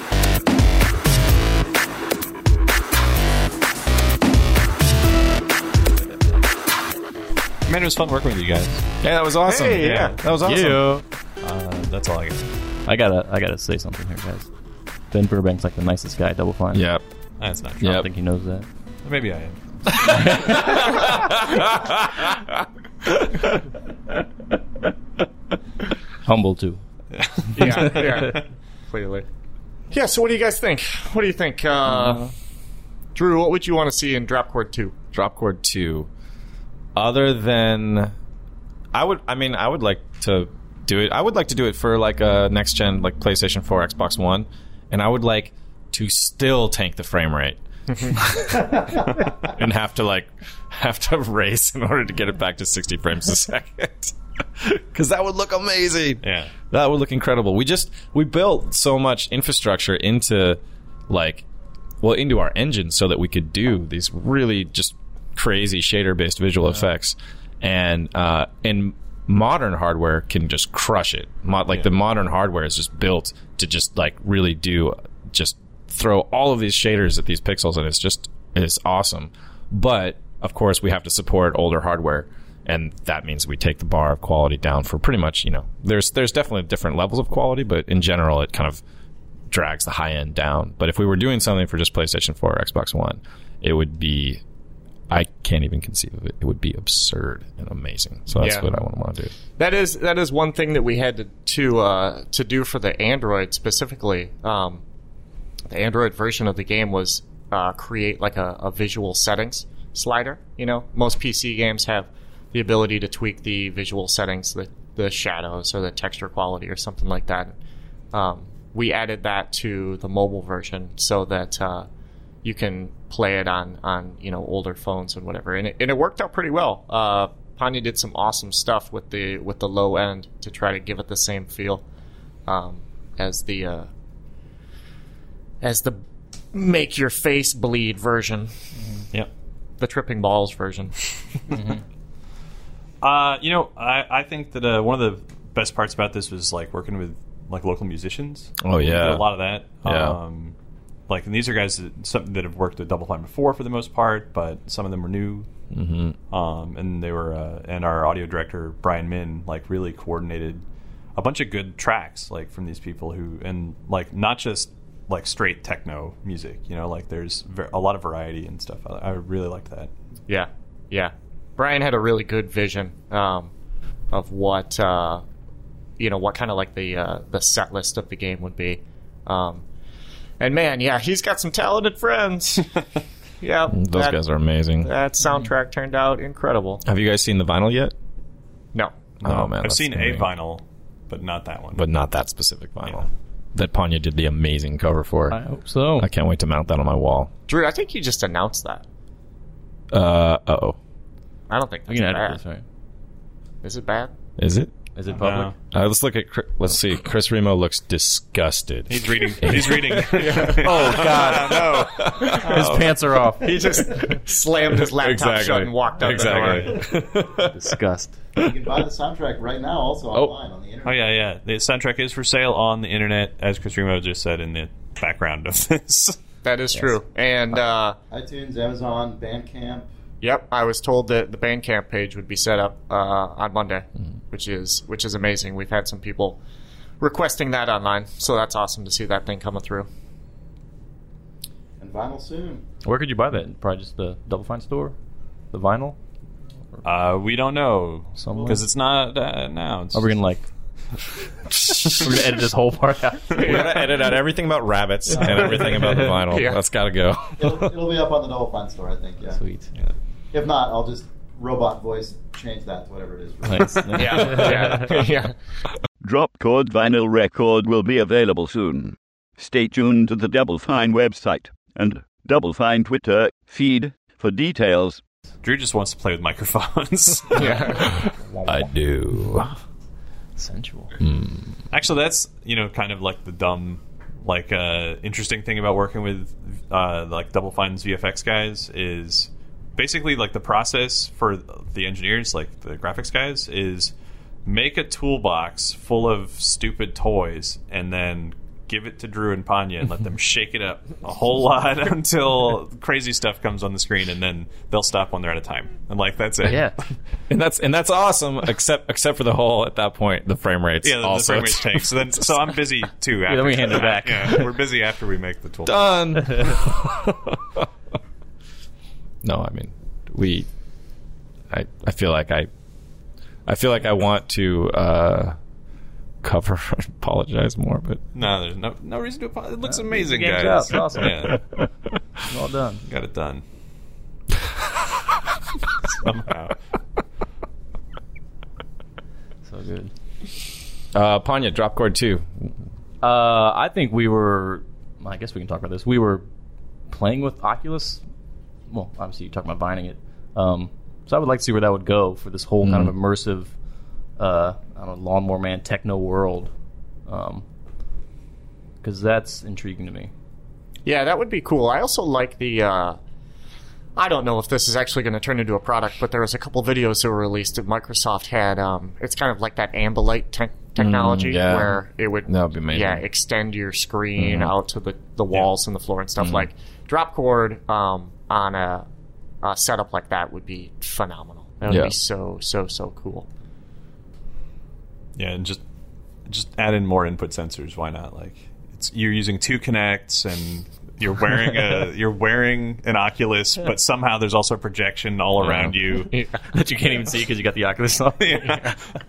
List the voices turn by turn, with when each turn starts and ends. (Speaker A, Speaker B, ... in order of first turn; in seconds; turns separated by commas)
Speaker A: 7.7-8.8, Speaker B: 9.0-11.0, Speaker C: 9.5-10.2, Speaker A: 9.8-10.2, Speaker D: 10.4-11.0, Speaker A: 11.4-12.5, Speaker D: 12.9-14.5, Speaker D: 15.1-16.9, Speaker B: 16.7-17.1, Speaker A: 17.4-18.1, Speaker B: 17.8-18.1, Speaker D: 17.9-18.7, Speaker A: 19.0-20.1, Speaker D: 20.0-20.8, Speaker B: 20.6-22.4, Speaker B: 23.1-23.5, Speaker D: 26.2-26.8, Speaker A: 27.1-28.4, Speaker C: 27.5-29.3, Speaker D: 27.6-27.9, Speaker C: 29.9-32.3, Speaker C: 33.1-34.9, Speaker B: 35.1-36.1, Speaker B: 37.0-38.1, Speaker B: 38.9-61.5, Speaker A: 56.2-56.5, Speaker B: 62.0-88.8, Speaker B: 89.5-94.4, Speaker B: 95.1-99.3, Speaker C: 98.4-98.7, Speaker C: 99.6-104.8, Speaker C: 105.7-117.6, Speaker C: 118.1-121.9, Speaker C: 122.4-131.8, Speaker C: 132.5-133.9, Speaker C: 135.6-138.6, Speaker D: 138.8-139.1, Speaker C: 139.8-141.4, Speaker D: 141.5-141.8, Speaker A: 143.0-150.6, Speaker B: 148.6-149.3, Speaker B: 149.8-150.2, Speaker A: 151.1-155.5, Speaker B: 155.7-156.2, Speaker A: 156.3-160.6, Speaker A: 161.2-169.9, Speaker C: 170.3-173.5, Speaker C: 174.1-175.2, Speaker C: 176.0-179.6, Speaker C: 180.4-182.9, Speaker C: 183.4-184.2, Speaker B: 183.7-184.9, Speaker C: 184.8-186.8, Speaker B: 186.8-187.9, Speaker B: 189.2-190.3, Speaker A: 189.2-191.9, Speaker B: 191.8-195.4, Speaker D: 195.3-196.1, Speaker B: 196.0-197.3, Speaker C: 197.5-198.8, Speaker B: 199.9-200.8, Speaker C: 201.5-202.4, Speaker D: 201.9-202.6, Speaker C: 203.6-204.1, Speaker B: 204.4-204.7, Speaker D: 205.0-205.6, Speaker A: 205.2-205.5, Speaker B: 205.7-212.9, Speaker A: 208.9-212.9, Speaker C: 210.1-211.9, Speaker D: 212.2-213.7, Speaker C: 213.4-216.8, Speaker B: 214.8-217.7, Speaker A: 216.0-216.8, Speaker D: 217.4-218.2, Speaker E: 218.4-221.1, Speaker A: 220.8-226.2, Speaker C: 226.4-228.0, Speaker E: 228.1-229.9, Speaker C: 230.2-236.4, Speaker C: 237.0-239.9, Speaker E: 241.8-242.7, Speaker D: 242.8-244.9, Speaker D: 245.5-246.0, Speaker A: 246.8-250.2, Speaker D: 248.2-248.7, Speaker D: 249.9-250.5, Speaker B: 251.5-252.1, Speaker D: 251.9-253.6, Speaker B: 253.3-257.7, Speaker C: 253.4-253.8, Speaker C: 256.2-256.6, Speaker E: 257.4-259.5, Speaker D: 259.3-259.7, Speaker E: 260.3-264.7, Speaker D: 263.4-264.9, Speaker C: 263.9-265.4, Speaker F: 266.0-275.0, Speaker A: 275.4-277.8, Speaker C: 277.4-278.0, Speaker B: 277.9-279.5, Speaker D: 277.9-278.7, Speaker D: 280.4-281.0, Speaker B: 281.0-281.6, Speaker A: 281.7-293.9, Speaker A: 294.4-306.9, Speaker D: 306.4-306.8, Speaker B: 307.3-312.4, Speaker A: 310.8-316.6, Speaker D: 313.3-314.6, Speaker B: 315.6-317.6, Speaker B: 319.2-320.5, Speaker B: 321.5-322.5, Speaker B: 323.5-325.4, Speaker B: 326.2-328.0, Speaker A: 328.1-331.4, Speaker D: 329.9-331.4, Speaker B: 331.2-331.5, Speaker D: 332.2-332.8, Speaker A: 332.9-333.4, Speaker A: 336.0-336.7, Speaker D: 339.4-339.9, Speaker B: 340.9-342.5, Speaker D: 343.0-346.2, Speaker D: 346.9-348.0, Speaker D: 348.7-353.6, Speaker B: 352.6-352.9, Speaker D: 354.2-356.5, Speaker D: 357.1-357.4, Speaker D: 358.8-360.1, Speaker C: 360.9-363.0, Speaker C: 364.0-378.9, Speaker B: 370.8-373.0, Speaker B: 374.2-374.5, Speaker B: 376.2-376.5, Speaker C: 379.4-383.3, Speaker B: 381.7-382.0, Speaker A: 385.2-385.6, Speaker A: 386.3-396.1, Speaker C: 395.4-396.4, Speaker D: 396.4-398.6, Speaker A: 398.2-398.8